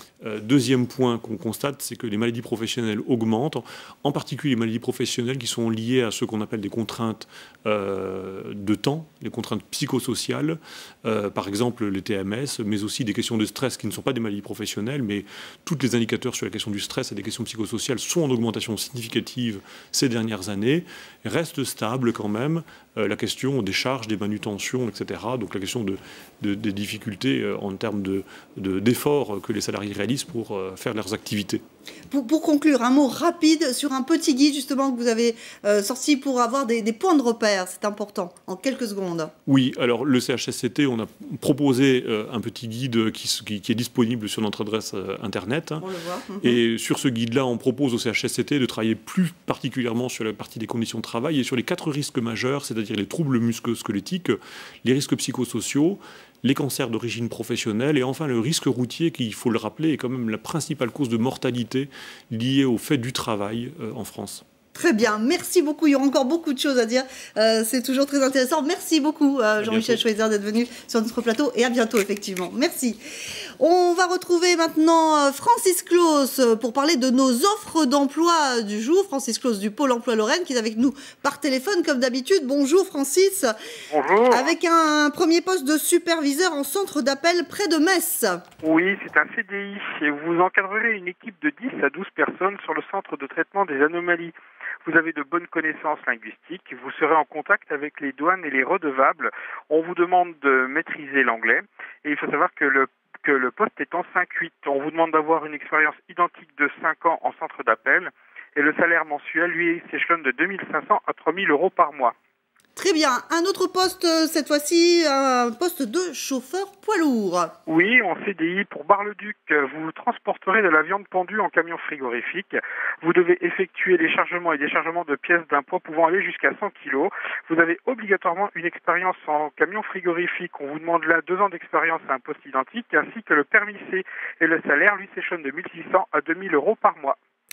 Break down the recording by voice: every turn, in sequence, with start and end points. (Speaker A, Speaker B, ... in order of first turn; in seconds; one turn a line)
Speaker A: 0.2-31.6
Speaker B: 32.1-39.3
Speaker A: 39.5-45.9
Speaker B: 45.8-46.6
Speaker A: 46.4-64.4
Speaker B: 64.7-73.0
Speaker A: 69.6-70.0
Speaker B: 73.6-83.5
Speaker C: 83.9-84.5
Speaker B: 84.3-88.4
Speaker C: 88.6-94.3
Speaker C: 94.8-112.1
Speaker B: 112.8-117.5
Speaker C: 117.7-137.2